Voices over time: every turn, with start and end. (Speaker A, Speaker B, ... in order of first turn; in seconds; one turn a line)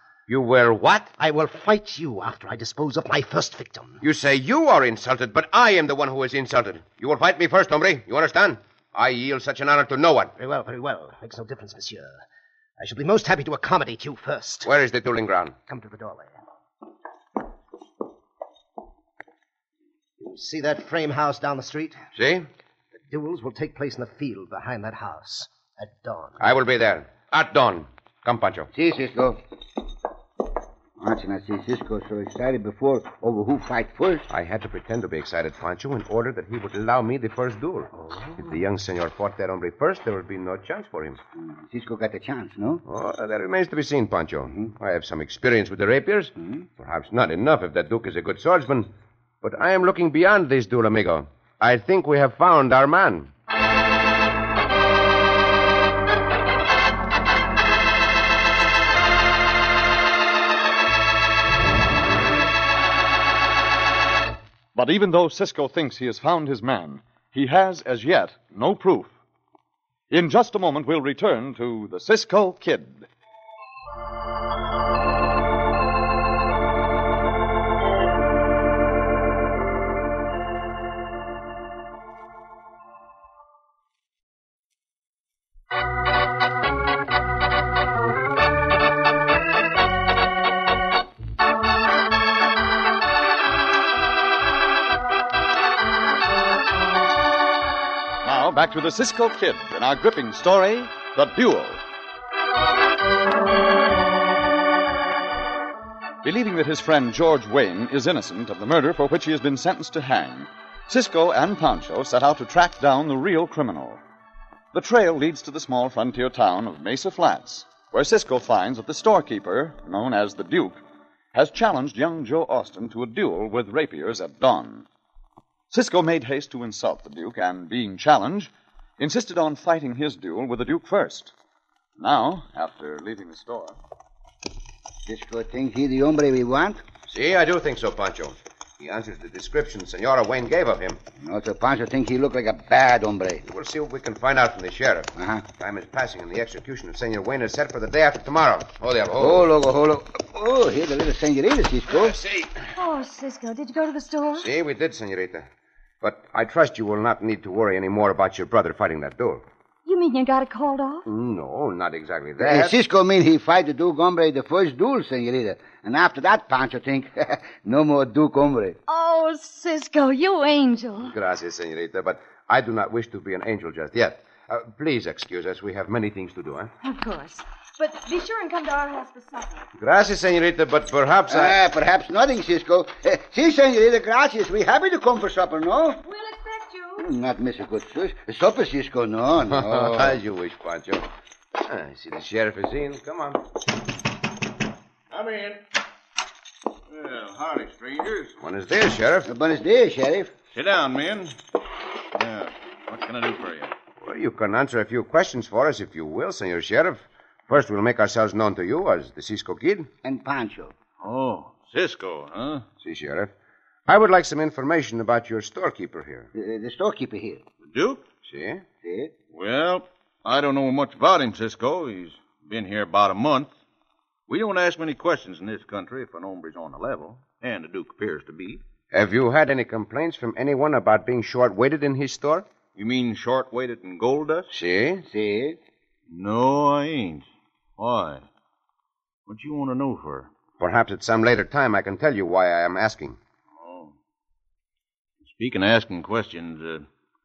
Speaker A: 0.3-1.1
Speaker B: 1.2-4.0
Speaker A: 4.0-10.3
Speaker B: 10.4-12.2
Speaker B: 12.8-14.8
Speaker A: 14.7-15.6
Speaker B: 15.7-16.3
Speaker B: 20.2-22.0
Speaker A: 22.1-22.5
Speaker B: 23.0-26.5
Speaker A: 26.4-28.7
Speaker C: 28.7-29.4
Speaker C: 31.0-34.3
Speaker A: 34.3-41.2
Speaker C: 41.4-42.8
Speaker A: 42.9-53.3
Speaker D: 64.8-69.1
Speaker D: 70.1-73.1
Speaker D: 98.2-101.8
Speaker D: 106.2-114.0
Speaker D: 114.7-120.8
Speaker D: 121.3-124.9
Speaker D: 125.7-131.3
Speaker D: 132.0-133.8
Speaker C: 135.1-136.8
Speaker A: 137.1-141.0
Speaker C: 141.2-143.4
Speaker A: 143.4-149.5
Speaker C: 145.2-145.4
Speaker C: 149.2-152.2
Speaker A: 151.9-152.6
Speaker E: 152.7-154.5
Speaker A: 154.4-155.5
Speaker A: 156.0-159.4
Speaker E: 159.8-161.0
Speaker A: 161.1-162.8
Speaker C: 162.4-168.8
Speaker E: 168.9-171.2
Speaker A: 171.0-176.7
Speaker E: 176.8-179.7
Speaker A: 179.8-181.6
Speaker C: 181.3-186.0
Speaker E: 186.0-187.1
Speaker C: 187.0-190.2
Speaker A: 189.5-191.1
Speaker A: 191.6-193.4
Speaker F: 195.1-195.6
Speaker F: 196.9-198.4
Speaker A: 198.4-199.3
Speaker C: 199.3-200.3
Speaker F: 200.5-201.4
Speaker F: 202.2-203.7
Speaker A: 204.0-209.9
Speaker C: 210.0-210.7
Speaker F: 211.0-212.7
Speaker A: 212.8-213.3
Speaker A: 213.9-216.3
Speaker C: 216.3-217.4
Speaker F: 217.7-218.0
Speaker A: 218.2-218.7
Speaker C: 218.8-219.1
Speaker F: 219.3-223.5
Speaker F: 224.3-228.6
Speaker A: 228.9-232.5
Speaker F: 232.8-234.5
Speaker A: 234.5-235.1
Speaker C: 235.1-235.6
Speaker F: 236.1-237.2
Speaker F: 237.8-238.3
Speaker F: 239.3-240.3
Speaker A: 240.6-243.2
Speaker F: 243.6-243.9
Speaker F: 245.2-246.9